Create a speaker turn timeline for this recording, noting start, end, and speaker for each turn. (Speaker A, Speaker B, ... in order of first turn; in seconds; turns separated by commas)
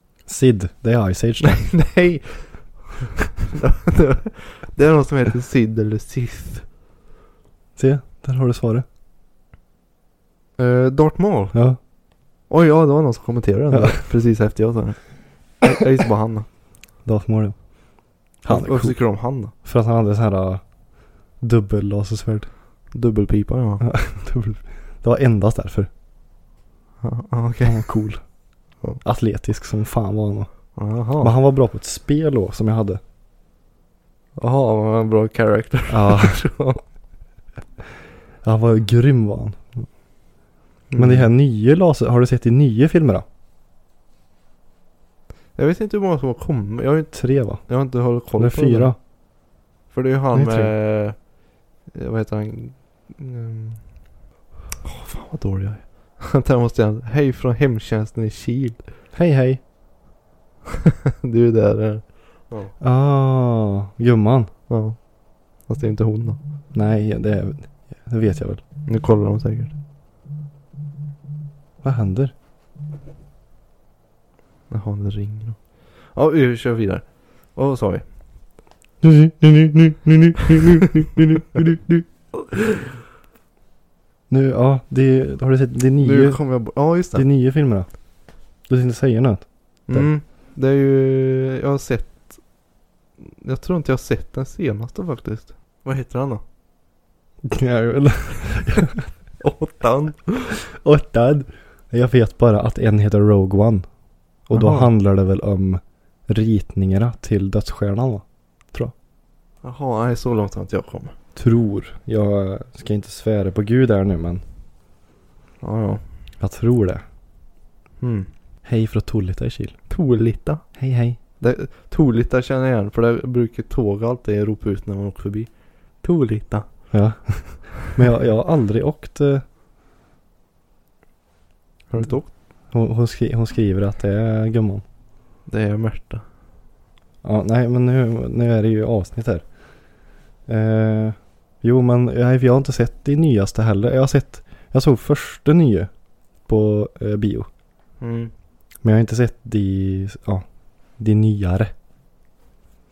Speaker A: 0.3-1.7, Speaker B: 1.4-2.6, Speaker B: 3.5-6.7, Speaker A: 7.8-8.8, Speaker B: 10.6-11.6, Speaker A: 11.5-11.8, Speaker B: 12.5-16.5, Speaker A: 13.7-14.0, Speaker A: 17.1-17.6, Speaker A: 18.4-20.6, Speaker B: 18.5-19.5, Speaker A: 21.4-22.5, Speaker B: 22.9-23.9, Speaker A: 23.8-25.9, Speaker B: 27.0-27.9, Speaker A: 27.6-28.2, Speaker A: 29.0-33.0, Speaker B: 30.8-31.3, Speaker B: 34.4-36.8, Speaker A: 35.9-36.4, Speaker A: 38.4-39.9, Speaker B: 40.9-41.3, Speaker A: 41.0-43.2, Speaker B: 45.6-49.0, Speaker A: 47.1-47.6, Speaker A: 48.3-49.0, Speaker B: 49.9-51.2, Speaker A: 50.3-50.7, Speaker B: 51.9-53.9, Speaker B: 54.8-58.8, Speaker A: 59.1-59.6, Speaker B: 61.2-62.7, Speaker A: 62.8-64.5, Speaker B: 64.7-65.0, Speaker B: 65.7-66.4, Speaker A: 66.7-68.6, Speaker B: 68.9-69.8, Speaker A: 71.8-72.3, Speaker B: 74.7-78.0, Speaker A: 79.0-82.1, Speaker B: 82.5-82.8, Speaker A: 84.3-86.4, Speaker B: 86.0-87.3, Speaker A: 87.1-87.9, Speaker A: 88.7-90.1, Speaker B: 89.9-92.4, Speaker B: 93.2-96.4, Speaker A: 97.4-99.0, Speaker B: 99.4-100.6, Speaker A: 100.6-103.9, Speaker B: 104.5-104.9, Speaker A: 104.5-108.9, Speaker B: 109.6-111.1, Speaker A: 111.4-114.4, Speaker B: 115.6-116.0, Speaker A: 116.4-117.0, Speaker B: 118.0-118.3, Speaker A: 118.7-119.8, Speaker B: 119.9-120.7, Speaker A: 120.8-121.2, Speaker B: 121.4-125.5, Speaker B: 126.0-126.7, Speaker A: 126.9-129.4, Speaker B: 131.9-132.3, Speaker A: 132.7-134.8, Speaker B: 135.5-136.2, Speaker A: 137.2-139.4, Speaker A: 140.5-145.9, Speaker A: 146.5-147.5, Speaker B: 148.0-148.3, Speaker A: 148.8-150.4, Speaker A: 151.0-151.7